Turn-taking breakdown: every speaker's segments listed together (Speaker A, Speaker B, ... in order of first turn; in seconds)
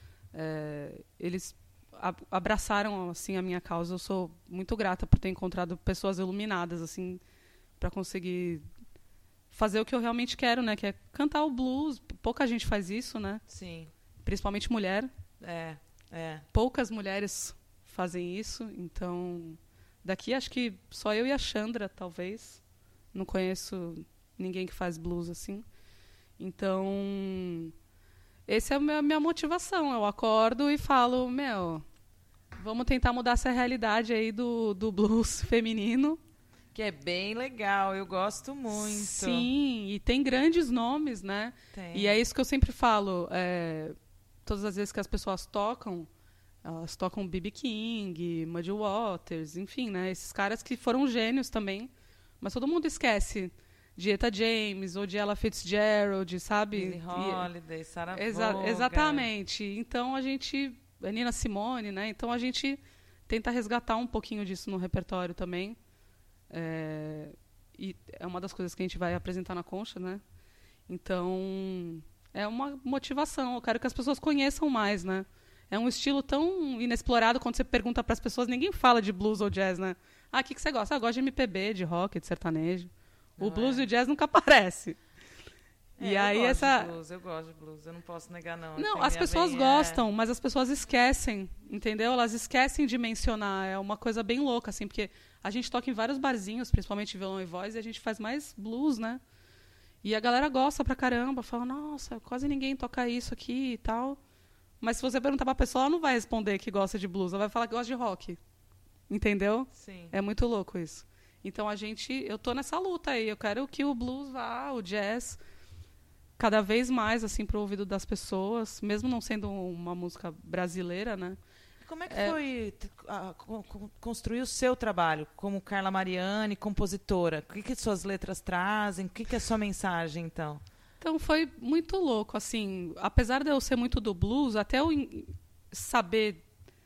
Speaker A: 0.3-7.2, 7.8-8.7, 9.5-13.4, 14.2-15.1, 16.5-22.6, 23.1-25.7, 26.4-27.7, 28.5-31.9, 32.6-36.2, 38.7-46.1, 46.6-57.5, 58.1-65.8, 66.5-70.2, 70.9-85.0, 86.0-86.9, 88.8-99.2, 100.0-104.2, 104.8-108.4, 109.1-115.4, 116.4-121.4, 122.1-122.4, 131.0-136.4
Speaker B: 13.5-13.9, 15.4-16.4, 36.7-39.5, 41.7-42.2, 56.7-59.3, 83.4-83.9, 86.0-90.0, 109.7-110.1, 121.8-130.6